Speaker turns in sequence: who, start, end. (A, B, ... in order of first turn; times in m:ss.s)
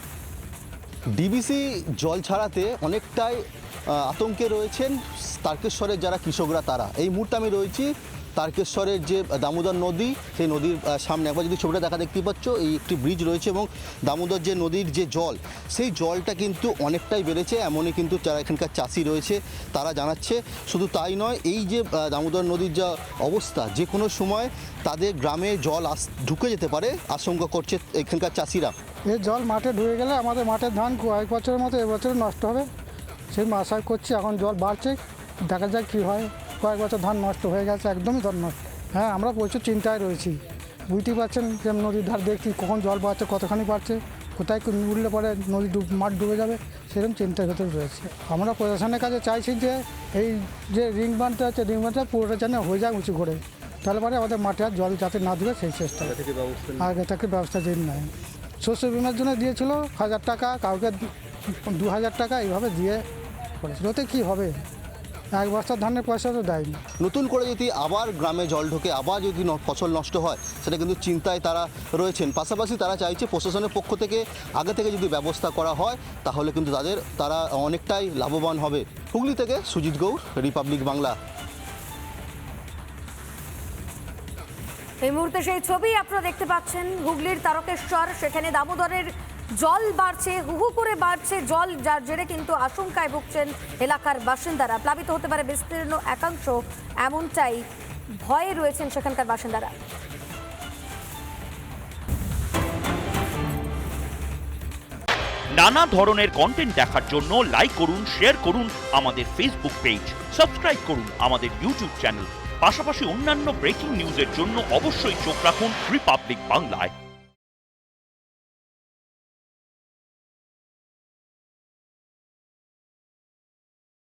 0:01.2-0:28.7 A
0:29.1-0:32.7 B
0:33.3-0:56.2 B
0:56.2-0:56.8 A
0:56.8-1:01.1 B
1:01.6-1:03.0 B
1:03.6-1:04.6 B
1:05.3-1:06.8 B
1:07.0-1:21.2 A
1:25.0-1:37.6 C
1:38.2-1:39.7 C
1:45.6-1:56.9 D